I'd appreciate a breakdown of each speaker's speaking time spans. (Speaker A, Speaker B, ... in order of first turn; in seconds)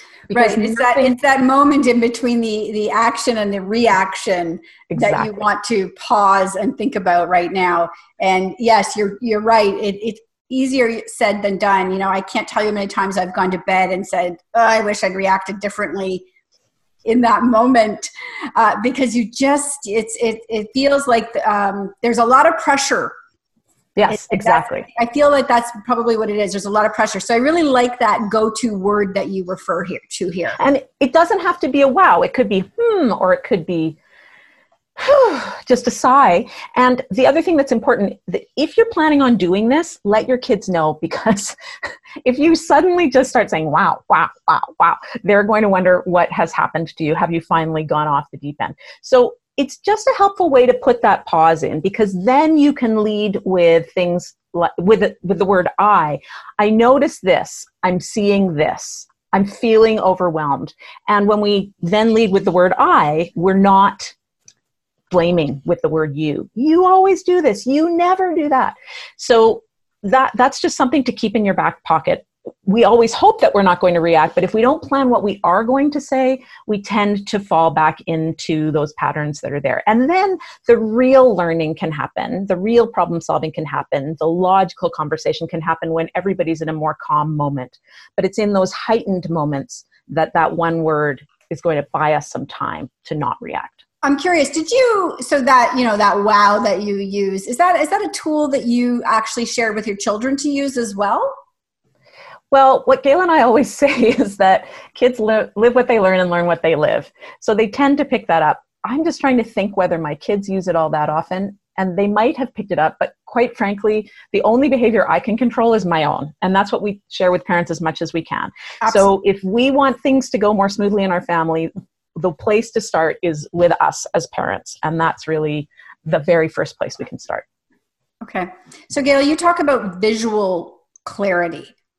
Speaker A: 0.3-1.1, 4.9-5.3, 23.9-24.9, 30.6-34.0, 35.0-41.5, 42.2-64.1, 65.1-93.8, 102.5-127.4
Speaker B: 0.3-16.2, 17.0-23.1, 24.1-30.6, 94.0-101.3, 118.8-119.1, 128.2-131.7